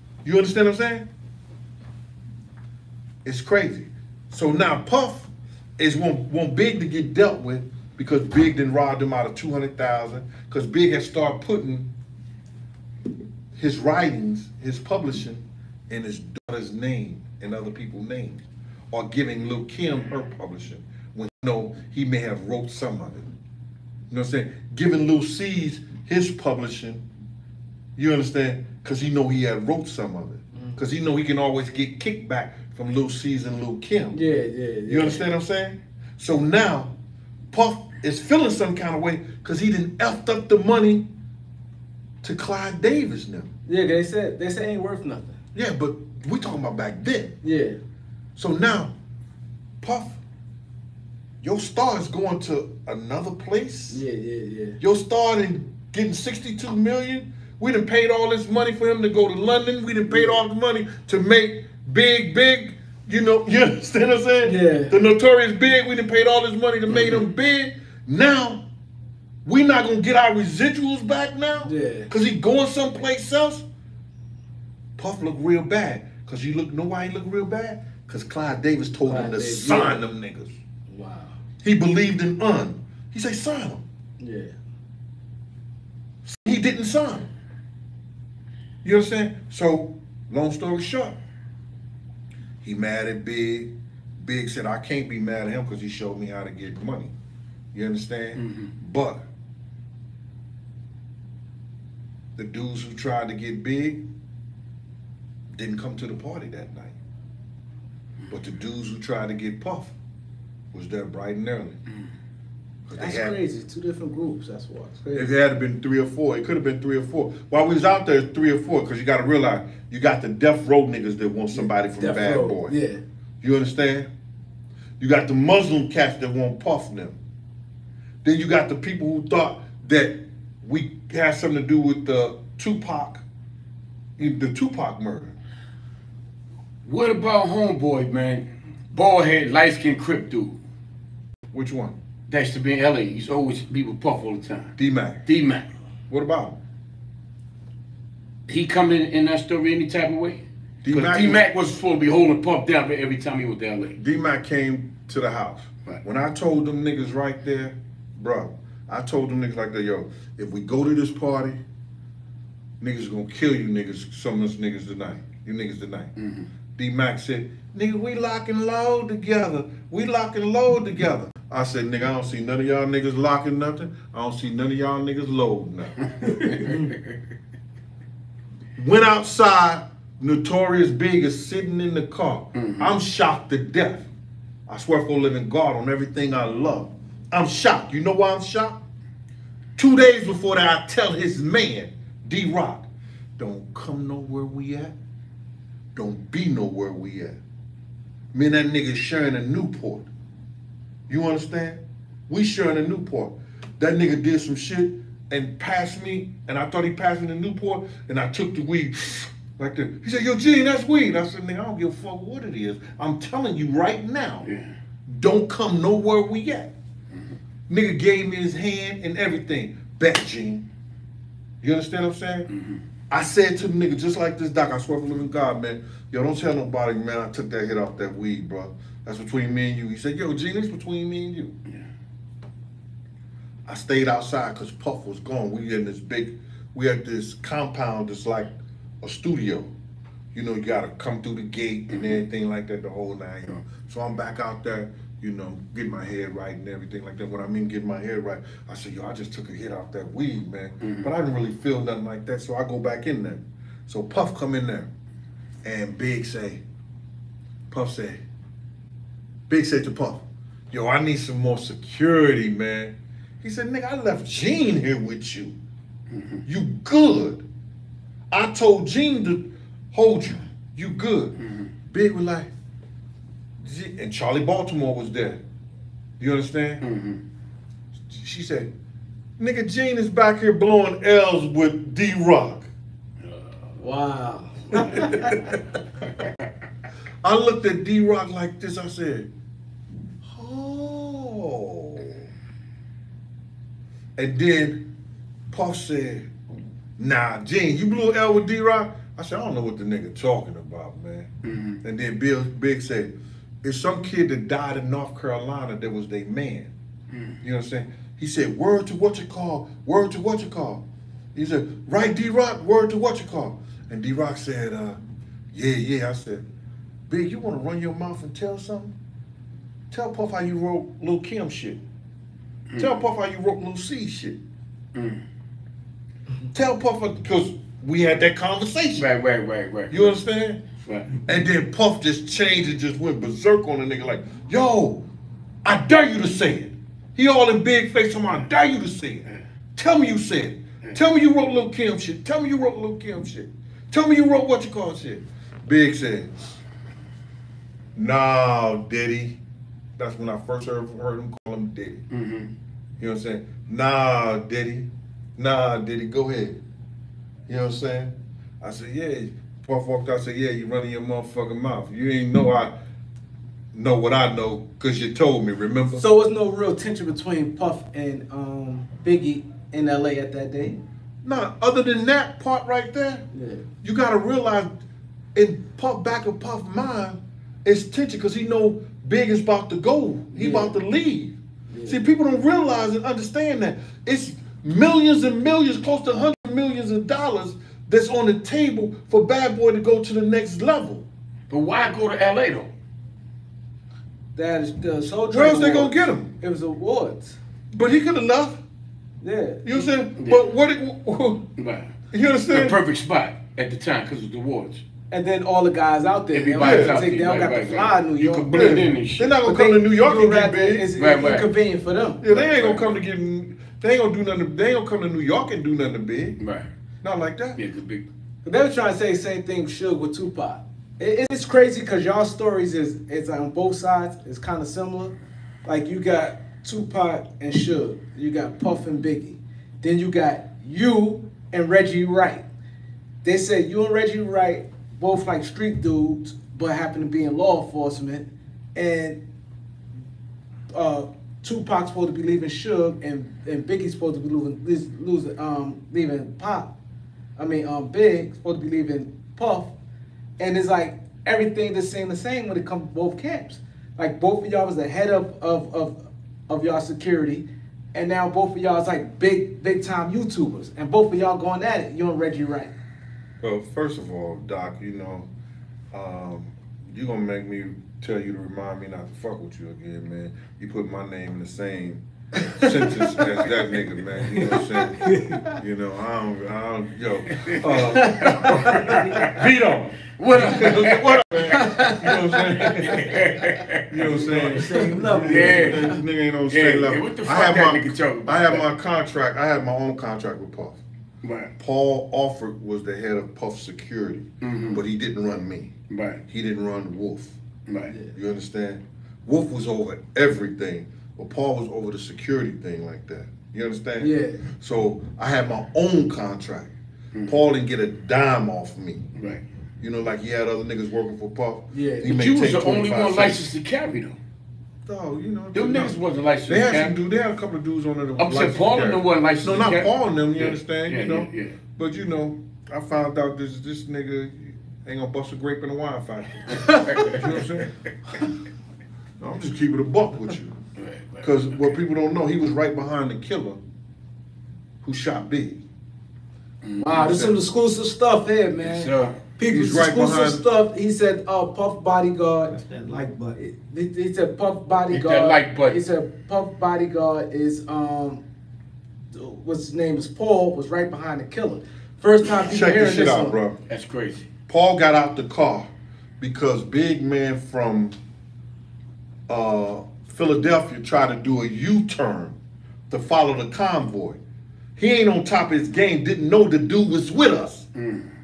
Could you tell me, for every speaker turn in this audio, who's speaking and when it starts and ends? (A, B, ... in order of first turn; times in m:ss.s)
0:00.2-0:01.1 A
0:03.2-0:11.9 A
0:13.6-0:23.3 A
0:24.1-0:27.0 A
0:28.0-0:34.2 A
0:34.1-0:35.2 B
0:34.9-0:36.9 A
0:37.5-0:41.1 A
0:42.2-0:43.5 A
0:43.7-0:45.4 B
0:45.5-0:47.4 A
0:47.4-0:47.8 B
0:48.4-0:48.9 A
0:49.8-0:50.2 A
0:51.4-0:54.0 A
0:53.9-0:54.8 B
0:54.8-1:08.6 A
1:04.4-1:04.9 B
1:06.9-1:07.2 C
1:09.4-1:13.7 A
1:11.6-1:12.1 B
1:15.0-1:20.6 A
1:19.1-1:20.0 B
1:20.9-1:21.4 B
1:21.6-1:23.8 A
1:24.2-1:24.6 B
1:26.2-1:27.3 A
1:28.8-1:31.2 A
1:32.6-1:37.1 A
1:37.7-1:39.2 A
1:38.4-1:38.7 C
1:42.4-1:44.0 A
1:45.5-1:47.0 A
1:48.3-1:49.9 A
1:50.7-1:51.8 A
1:52.9-1:53.4 A
1:53.0-1:55.3 B
1:55.1-2:02.7 A
2:01.5-2:03.0 B
2:03.4-2:04.1 A
2:05.0-2:07.2 A
2:08.2-2:13.2 A
2:14.2-2:15.4 A
2:16.8-2:20.6 C
2:21.5-2:22.0 A
2:22.3-2:25.7 C
2:24.8-2:25.2 A
2:26.1-2:26.6 A
2:28.5-2:34.0 C
2:30.8-2:31.6 A
2:34.0-2:41.6 A
2:42.8-2:46.1 A
2:46.2-2:46.5 C
2:46.8-2:56.9 A
2:56.2-2:57.1 C
2:58.8-3:04.1 A
3:02.6-3:02.9 C
3:04.7-3:08.8 A
3:09.8-3:15.0 A
3:16.0-3:17.4 A
3:18.3-3:20.1 A
3:21.1-3:34.5 A
3:34.4-3:34.8 C
3:35.1-3:36.7 A
3:37.7-3:40.6 A
3:41.6-3:42.5 A
3:42.5-3:42.8 C
3:43.1-3:51.6 A
3:53.7-3:58.5 A
3:59.0-3:59.7 A
4:00.3-4:14.9 A
4:01.9-4:02.2 C
4:10.8-4:11.1 C
4:15.6-4:16.6 A
4:17.7-4:18.2 A
4:19.5-4:25.6 A
4:26.1-4:26.4 C
4:26.4-4:27.4 A
4:28.3-4:31.4 A
4:31.4-4:31.7 C
4:31.9-4:32.5 A
4:33.6-4:35.4 A
4:36.2-4:36.8 A
4:36.8-4:37.2 C
4:38.1-4:38.7 A
4:39.4-4:42.7 A
4:43.2-4:43.5 C
4:43.8-4:45.3 B
4:44.7-4:45.6 A
4:46.2-4:46.5 C
4:47.2-4:49.3 A
4:50.2-4:52.3 A
4:54.2-4:54.9 A
4:55.5-4:56.3 A
4:57.0-5:01.3 A
5:01.4-5:01.8 C
5:01.8-5:03.1 A
5:03.6-5:06.7 A
5:07.1-5:07.4 C
5:07.4-5:10.8 A
5:11.3-5:15.0 A
5:15.5-5:16.4 A
5:17.1-5:18.9 A
5:19.9-5:21.8 A
5:22.8-5:24.4 A
5:24.9-5:25.2 C
5:26.5-5:29.1 A
5:29.0-5:30.2 C
5:29.9-5:30.6 A
5:30.8-5:31.2 C
5:31.2-5:35.1 A
5:35.6-5:39.2 A
5:39.8-5:46.4 A
5:48.0-5:49.4 A
5:50.0-5:52.0 A
5:52.1-5:52.5 C
5:53.0-5:56.6 A
5:57.5-6:02.7 A
6:03.7-6:06.1 A
6:06.0-6:10.8 B
6:11.2-6:13.2 A
6:13.3-6:13.6 B
6:13.8-6:14.7 A
6:15.4-6:31.1 A
6:20.4-6:20.7 B
6:21.7-6:22.0 B
6:31.5-6:32.7 C
6:34.4-6:37.4 B
6:35.3-6:36.3 A
6:37.7-6:38.6 A
6:39.2-6:39.9 B
6:39.6-6:41.5 A
6:41.6-6:41.9 C
6:42.1-6:42.8 A
6:42.5-6:44.8 C
6:45.1-6:48.8 B
6:46.3-6:49.4 C
6:46.6-6:47.1 A
6:48.5-6:50.9 A
6:49.4-6:52.2 B
6:51.0-6:51.5 C
6:52.2-6:56.4 A
6:52.2-6:53.0 C
6:56.4-6:56.7 C
6:57.0-6:57.6 A
6:57.6-6:58.0 C
6:58.4-7:05.1 B
7:05.6-7:12.4 B
7:13.2-7:19.2 B
7:20.7-7:26.7 B
7:27.4-7:29.7 B
7:30.4-7:42.7 B
7:43.4-7:45.3 A
7:45.9-8:03.3 A
7:52.5-7:53.0 B
7:55.0-7:55.5 B
7:57.3-7:59.5 C
7:58.0-7:59.1 B
8:00.2-8:04.4 C
8:01.5-8:02.7 B
8:03.9-8:10.8 A
8:04.0-8:06.0 D
8:05.2-8:08.7 C
8:11.2-8:11.5 C
8:11.6-8:15.7 A
8:14.4-8:14.8 C
8:15.9-8:16.2 C
8:16.3-8:17.4 A
8:17.7-8:17.9 C
8:17.9-8:18.1 B
8:18.1-8:26.7 A
8:24.0-8:24.4 B
8:27.1-8:27.4 C
8:27.3-8:29.1 A
8:29.2-8:29.4 C
8:29.8-8:33.5 A
8:31.7-8:32.2 B
8:32.0-8:34.2 C
8:34.9-8:47.7 A
8:35.5-8:37.0 C
8:38.2-8:41.6 C
8:46.5-8:47.4 C
8:49.2-8:50.6 A
8:50.8-8:51.6 C
8:51.2-8:53.6 A
8:54.8-8:55.6 A
8:56.6-8:57.2 C
8:56.8-9:02.6 B
8:57.0-8:57.4 A
8:58.6-8:59.2 C
8:59.5-9:00.4 A
9:02.5-9:03.4 D
9:03.4-9:08.2 B
9:04.9-9:05.8 C
9:09.1-9:13.4 B
9:12.4-9:13.6 A
9:13.7-9:14.3 C
9:14.5-9:18.0 A
9:19.3-9:22.4 A
9:22.9-9:24.2 A
9:24.8-9:27.7 A
9:27.8-9:28.1 C